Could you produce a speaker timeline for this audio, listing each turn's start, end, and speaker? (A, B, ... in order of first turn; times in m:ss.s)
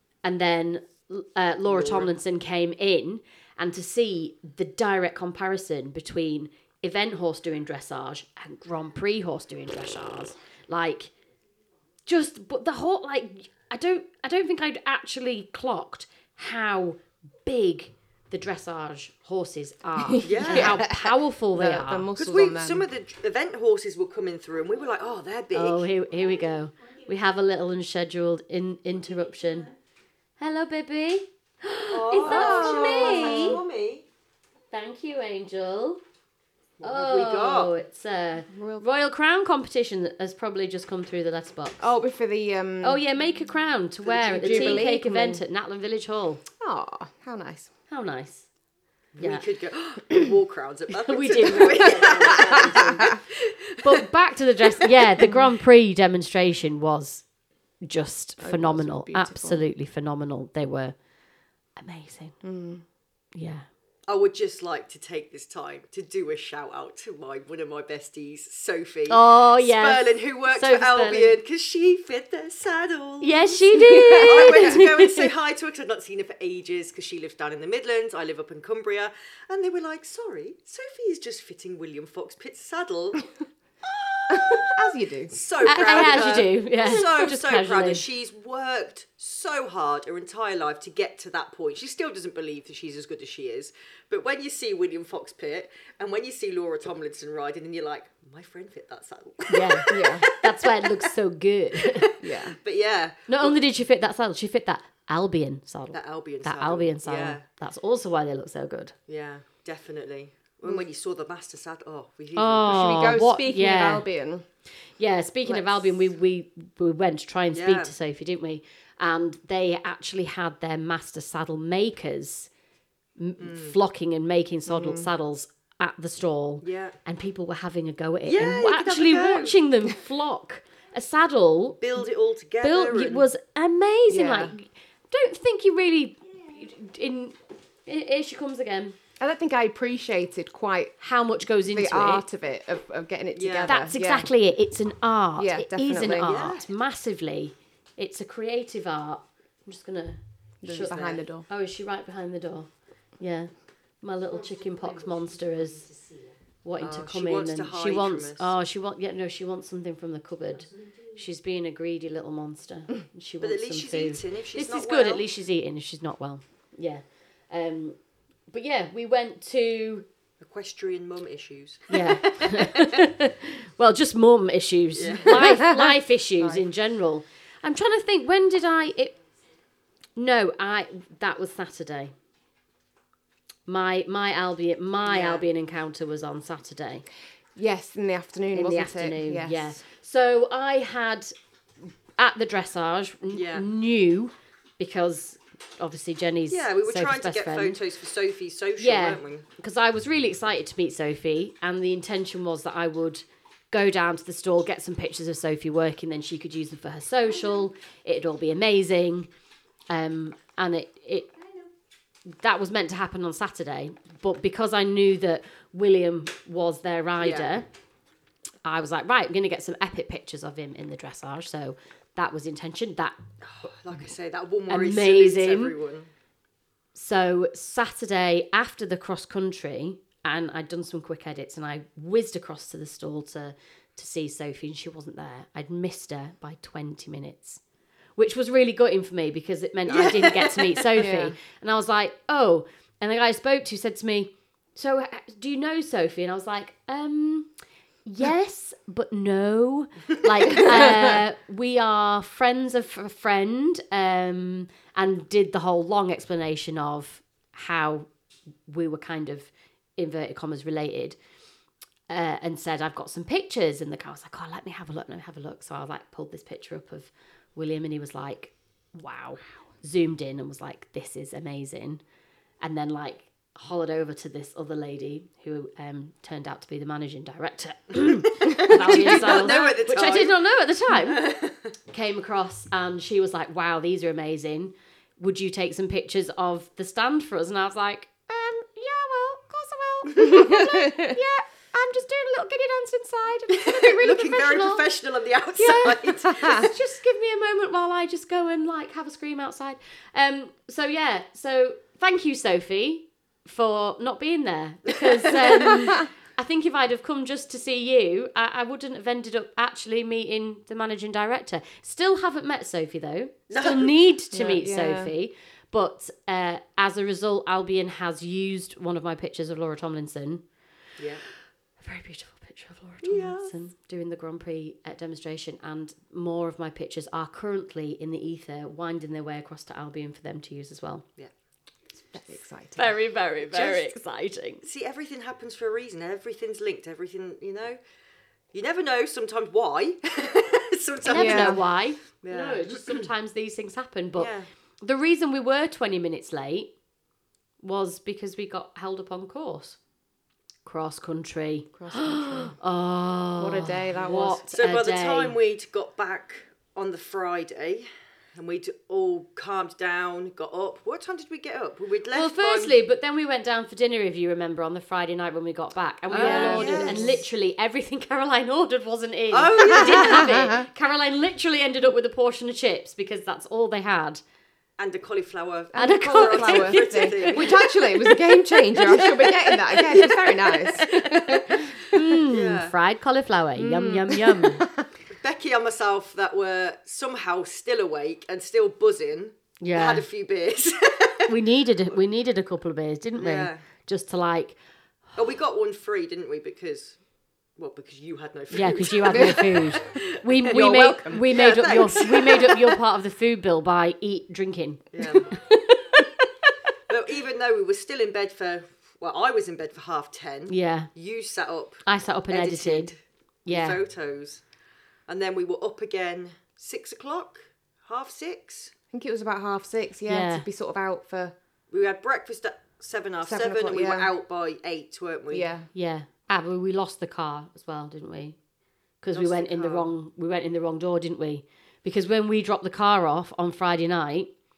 0:00.2-0:11.1 A
0:01.7-0:02.1 B
0:12.1-0:22.1 A
0:20.0-0:22.9 C
0:20.2-0:21.0 B
0:22.2-0:25.9 B
0:25.5-0:29.7 A
0:30.4-0:33.6 A
0:31.9-0:34.0 B
0:32.2-0:33.6 C
0:34.7-0:36.0 A
0:36.8-0:37.7 B
0:36.8-0:41.9 A
0:38.5-0:38.8 C
0:41.8-0:43.0 C
0:42.8-0:46.4 A
0:44.1-0:45.4 C
0:44.3-0:44.8 B
0:46.6-0:47.7 C
0:47.9-0:48.5 A
0:49.2-0:54.0 B
0:51.0-0:53.2 A
0:53.8-0:57.2 A
0:57.8-1:01.0 A
0:58.4-0:59.7 C
1:01.8-1:02.4 A
1:02.4-1:02.8 C
1:03.4-1:03.7 A
1:04.1-1:13.4 B
1:09.1-1:11.4 A
1:13.2-1:15.3 A
1:13.7-1:14.8 C
1:14.2-1:23.3 B
1:23.8-1:41.1 B
1:24.3-1:26.4 C
1:25.6-1:28.0 A
1:39.5-1:42.1 A
1:39.9-1:40.3 C
1:41.8-1:43.6 B
1:42.2-1:42.6 C
1:43.3-1:49.0 A
1:45.9-1:47.4 B
1:49.1-1:53.1 B
1:52.4-1:54.1 A
1:52.7-1:54.5 C
1:55.0-2:02.5 A
1:55.5-1:55.9 C
1:57.5-1:57.9 B
2:03.2-2:12.0 A
2:03.4-2:03.8 B
2:04.7-2:05.1 C
2:06.6-2:07.0 B
2:08.3-2:09.6 B
2:11.8-2:13.3 B
2:12.6-2:19.0 A
2:14.1-2:14.5 C
2:19.2-2:21.0 C
2:21.0-2:22.2 A
2:21.7-2:24.3 C
2:23.4-2:23.9 B
2:23.7-2:35.9 A
2:25.4-2:26.4 C
2:26.2-2:26.7 B
2:30.6-2:31.5 C
2:36.6-2:48.0 A
2:36.8-2:38.5 B
2:43.4-2:45.2 B
2:48.5-2:50.1 A
2:50.4-2:53.0 B
2:51.9-2:59.2 A
2:55.0-2:55.7 B
3:00.2-3:02.1 A
3:03.7-3:07.0 A
3:05.0-3:05.4 B
3:07.6-3:09.8 C
3:08.5-3:11.3 A
3:12.2-3:17.8 A
3:13.3-3:13.7 B
3:16.5-3:19.5 B
3:18.8-3:29.3 A
3:29.9-3:31.3 A
3:32.4-3:37.7 A
3:37.2-3:37.5 B
3:38.6-3:43.2 A
3:43.4-3:46.1 B
3:44.7-3:45.7 A
3:47.0-3:57.6 A
3:58.2-4:07.5 A
3:59.9-4:01.0 B
4:01.0-4:01.4 C
4:08.1-4:18.1 A
4:18.7-4:21.2 A
4:22.1-4:32.0 A
4:32.6-4:41.3 A
4:38.4-4:41.7 B
4:38.9-4:39.5 C
4:41.9-4:54.8 A
4:50.1-4:51.2 C
4:53.5-4:56.7 B
4:55.6-5:20.4 A
4:56.2-4:56.7 C
5:05.3-5:05.8 B
5:13.5-5:13.9 B
5:14.3-5:15.1 C
5:21.0-5:21.2 B
5:21.8-5:31.0 A
5:23.0-5:23.5 B
5:32.1-5:32.9 C
5:32.8-5:34.6 A
5:33.4-5:33.9 B
5:34.6-5:37.8 B
5:38.5-5:41.7 B
5:41.1-5:44.3 A
5:41.1-5:41.6 C
5:42.2-5:43.1 B
5:44.2-5:44.5 B
5:44.8-5:46.7 A
5:47.6-5:49.8 A
5:50.6-5:55.4 A
5:51.8-5:52.6 C
5:53.4-5:54.4 C
5:54.5-6:02.8 B
6:02.1-6:14.2 A
6:06.1-6:07.2 B
6:06.1-6:07.2 C
6:09.3-6:10.5 B
6:09.8-6:10.6 C
6:14.8-6:17.7 B
6:15.7-6:21.6 C
6:15.8-6:17.7 A
6:18.9-6:19.2 A
6:20.7-6:24.6 A
6:22.3-6:22.7 B
6:23.6-6:24.9 C
6:25.1-6:31.3 B
6:29.6-6:30.0 A
6:31.3-6:34.6 A
6:33.2-6:33.6 B
6:35.2-6:37.0 B
6:37.6-6:40.5 B
6:38.5-6:46.1 A
6:39.1-6:39.8 C
6:40.5-6:41.3 C
6:41.2-6:42.8 B
6:44.9-6:45.3 B
6:46.9-6:53.0 B
6:50.5-6:50.9 A
6:51.9-6:52.9 A
6:53.5-6:53.8 A
6:53.5-6:54.4 B
6:55.1-6:58.7 B
6:58.9-7:01.3 C
7:00.1-7:00.4 A
7:01.7-7:05.5 B
7:03.2-7:04.1 C
7:05.3-7:05.7 C
7:05.7-7:08.4 A
7:09.0-7:14.3 A
7:09.1-7:09.9 B